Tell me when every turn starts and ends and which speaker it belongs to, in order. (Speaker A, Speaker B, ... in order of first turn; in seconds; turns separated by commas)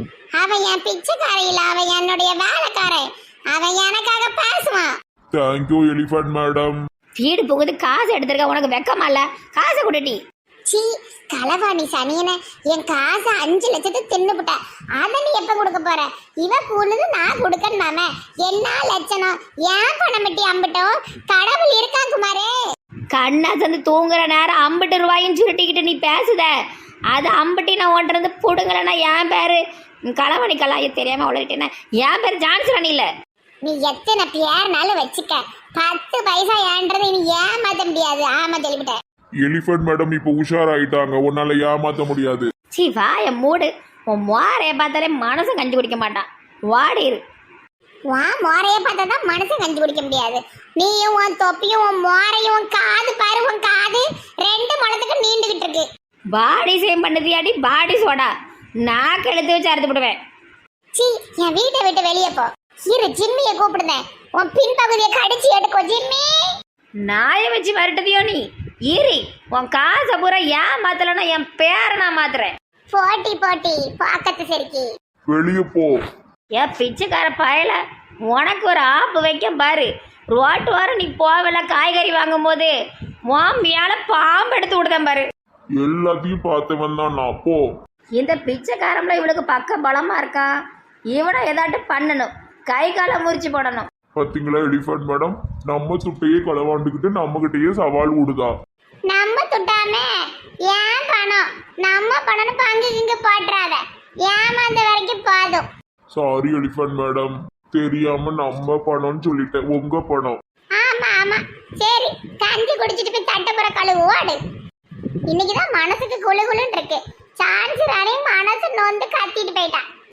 Speaker A: 0.3-4.9, Speaker B: 5.3-6.8, Speaker C: 7.2-10.2, Speaker A: 10.7-22.5, Speaker C: 23.1-26.5, Speaker C: 27.1-29.6, Speaker C: 30.1-33.1, Speaker A: 33.6-39.0, Speaker B: 39.4-42.5, Speaker C: 42.7-47.2, Speaker A: 48.1-55.9, Speaker C: 56.3-58.3, Speaker C: 58.8-60.2, Speaker A: 60.9-66.3, Speaker C: 67.0-72.5, Speaker A: 72.9-74.9, Speaker B: 75.3-76.0, Speaker C: 76.5-77.8, Speaker C: 78.3-82.7, Speaker C: 83.3-85.2, Speaker B: 85.8-87.6, Speaker C: 88.2-90.5, Speaker C: 91.1-93.9, Speaker B: 94.1-98.5, Speaker A: 99.1-100.1, Speaker A: 100.7-105.7, Speaker B: 106.1-110.4, Speaker A: 110.8-114.4, Speaker A: 115.3-119.8